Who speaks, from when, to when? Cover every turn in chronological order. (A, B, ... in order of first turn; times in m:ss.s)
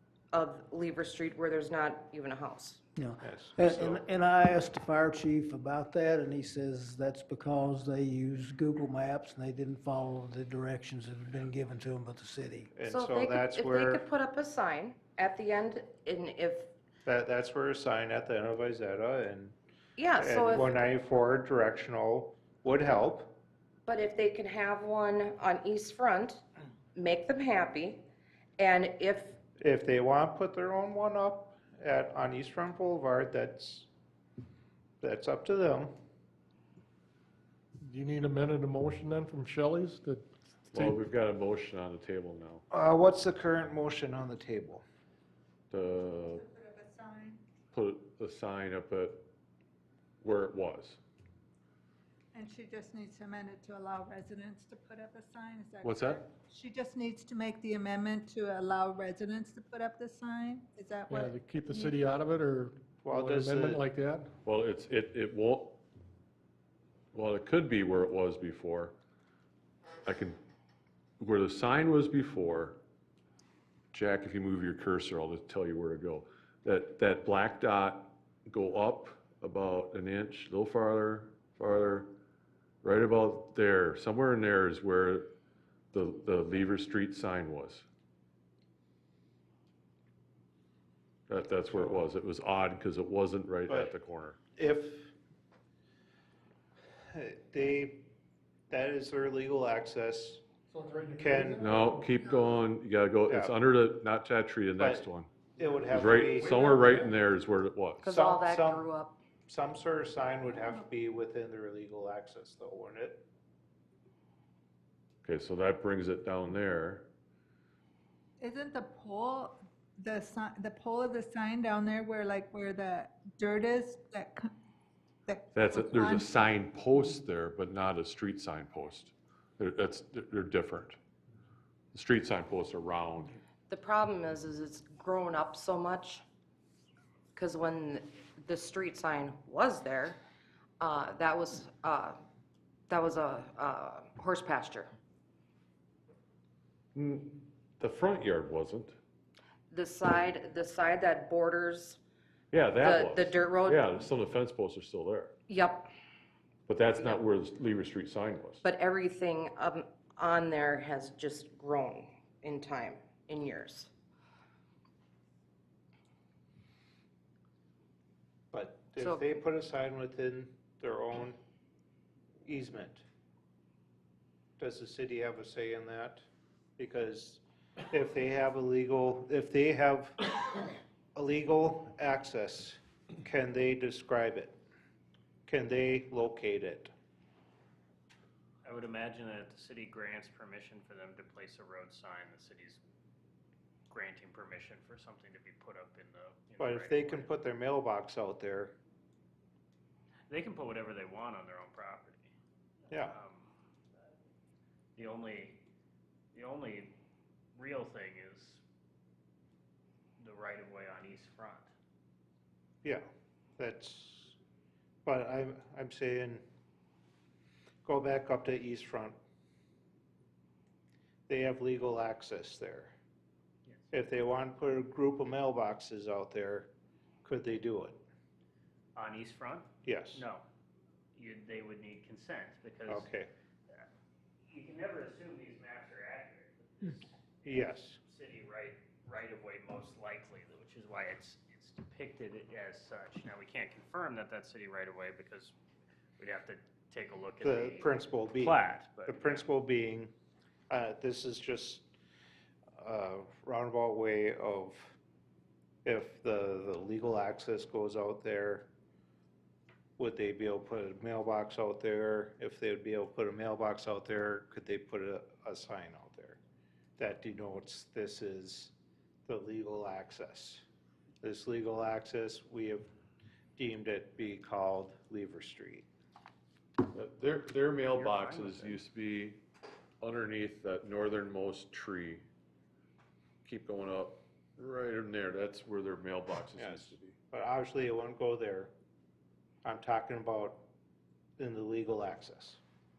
0:00.3-0:02.8 A
0:03.0-0:12.7 B
0:03.2-0:04.0 C
0:12.8-0:14.0 C
0:12.9-0:16.7 A
0:17.0-0:19.6 C
0:20.0-0:20.8 A
0:20.2-0:23.4 C
0:23.9-0:26.4 A
0:27.0-0:28.1 A
0:28.6-0:29.4 A
0:29.6-0:33.9 C
0:35.0-0:35.9 C
0:37.8-0:41.0 D
0:40.7-0:42.6 E
0:42.7-0:44.8 C
0:45.7-0:46.5 E
0:46.4-0:47.4 F
0:47.7-0:49.3 E
0:50.2-0:51.0 E
0:52.3-1:02.1 F
0:55.8-0:56.2 E
1:01.1-1:04.3 D
1:03.0-1:03.8 C
1:04.4-1:05.8 E
1:07.1-1:09.0 E
1:10.0-1:10.4 E
1:11.2-1:12.8 E
1:13.9-1:22.1 E
1:22.8-1:25.3 E
1:25.9-1:27.9 E
1:31.3-1:34.4 E
1:34.6-1:35.1 C
1:37.1-1:38.1 C
1:38.7-1:40.4 C
1:40.7-1:41.8 D
1:41.2-1:41.7 C
1:41.6-1:45.3 E
1:44.8-1:45.0 C
1:45.6-1:46.8 C
1:45.9-1:48.1 E
1:48.0-1:49.2 A
1:48.1-1:48.9 C
1:49.5-1:53.3 C
1:55.2-1:57.1 E
1:58.4-2:04.5 F
2:05.3-2:06.3 F
2:05.5-2:11.0 E
2:11.9-2:13.4 E
2:13.7-2:16.2 A
2:17.3-2:20.2 A
2:20.8-2:22.2 A
2:22.9-2:24.9 A
2:27.0-2:29.0 E
2:29.7-2:32.0 A
2:32.5-2:35.4 E
2:32.8-2:33.8 A
2:35.5-2:35.9 A
2:36.7-2:38.6 E
2:38.6-2:43.9 A
2:48.5-2:51.4 C
2:49.0-2:49.4 A
2:52.4-2:53.0 C
2:54.6-2:56.2 C
2:56.8-3:00.2 C
3:01.2-3:04.6 C
3:05.5-3:06.9 C
3:08.6-3:12.8 G
3:13.9-3:17.3 G
3:16.6-3:18.8 C
3:20.3-3:22.3 G
3:22.9-3:23.2 C
3:23.0-3:23.5 G
3:25.0-3:25.6 G
3:26.3-3:27.0 G
3:27.6-3:28.6 G
3:30.2-3:31.7 G
3:33.6-3:34.4 C
3:35.0-3:36.4 C
3:37.8-3:39.2 C
3:41.3-3:42.9 C
3:43.9-3:46.7 C
3:47.2-3:48.0 C
3:49.0-3:50.4 G
3:49.8-3:50.2 C
3:51.1-3:53.1 G
3:52.9-3:53.3 C
3:54.5-4:05.6 G
3:57.4-3:58.0 C
4:06.2-4:09.5 G
4:07.4-4:10.1 C
4:10.7-4:11.9 C
4:12.8-4:15.0 C
4:15.8-4:18.7 C
4:20.0-4:26.4 C
4:27.0-4:28.7 C
4:29.3-4:30.6 C
4:31.2-4:32.9 C
4:33.6-4:35.9 C
4:36.9-4:39.4 E
4:37.9-4:38.8 G
4:40.0-4:42.2 E
4:43.4-4:47.2 E
4:46.6-4:48.7 C
4:49.6-4:50.7 C
4:51.4-4:52.6 C